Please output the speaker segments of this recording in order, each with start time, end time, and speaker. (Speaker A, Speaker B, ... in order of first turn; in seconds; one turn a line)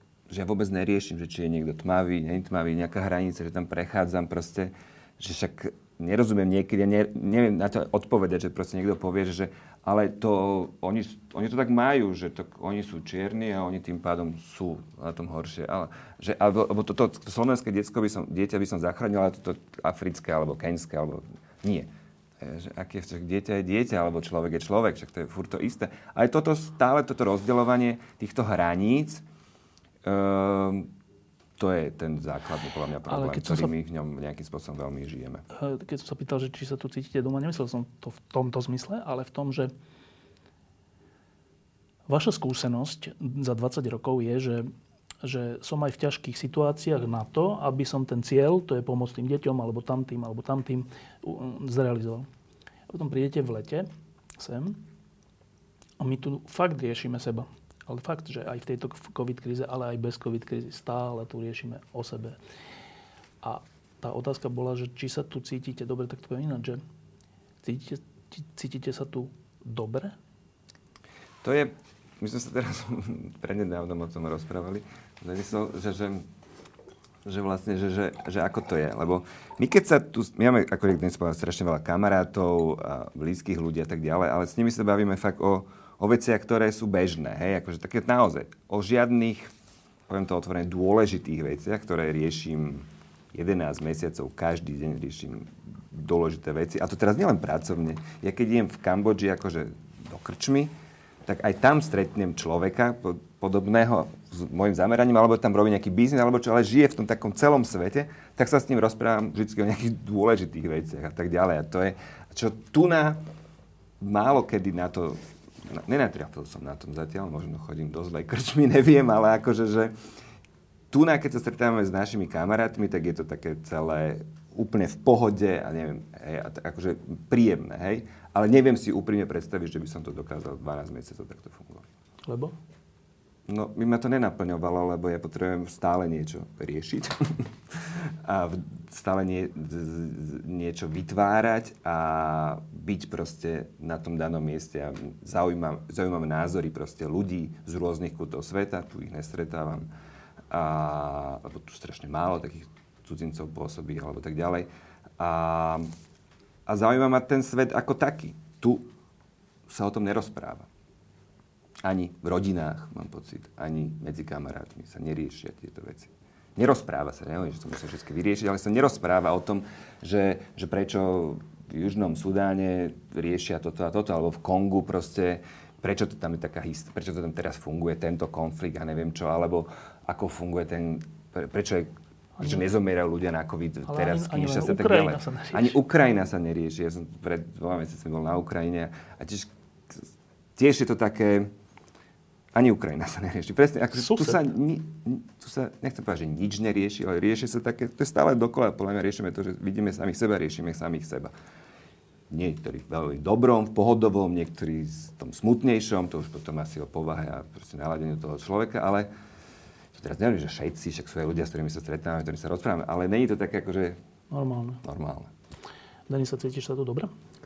Speaker A: 0.3-21.9
Speaker A: 22.4-29.2
Speaker A: 30.0-30.9
Speaker A: 31.6-35.4
Speaker B: 33.1-33.7
Speaker B: 35.5-39.7
Speaker B: 42.1-44.7
Speaker B: 45.2-52.3
Speaker B: 52.9-54.8
Speaker B: 56.0-62.4
Speaker B: 63.4-66.8
Speaker B: 67.6-70.2
Speaker A: 71.4-76.3
Speaker A: 77.2-89.5
Speaker A: 90.1-100.7
Speaker A: 101.2-113.2
Speaker A: 114.0-119.9
Speaker A: 120.9-131.9
Speaker B: 132.3-132.6
Speaker A: 133.5-149.8
Speaker A: 150.5-154.7
Speaker A: 155.2-155.9
Speaker A: 156.7-158.9
Speaker A: 159.7-160.7
Speaker A: 161.8-191.5
Speaker B: 183.9-185.8
Speaker A: 192.5-201.3
Speaker B: 193.9-194.5
Speaker A: 202.3-209.1
Speaker A: 209.9-214.0
Speaker B: 214.3-214.8
Speaker A: 214.8-215.3
Speaker B: 216.1-217.1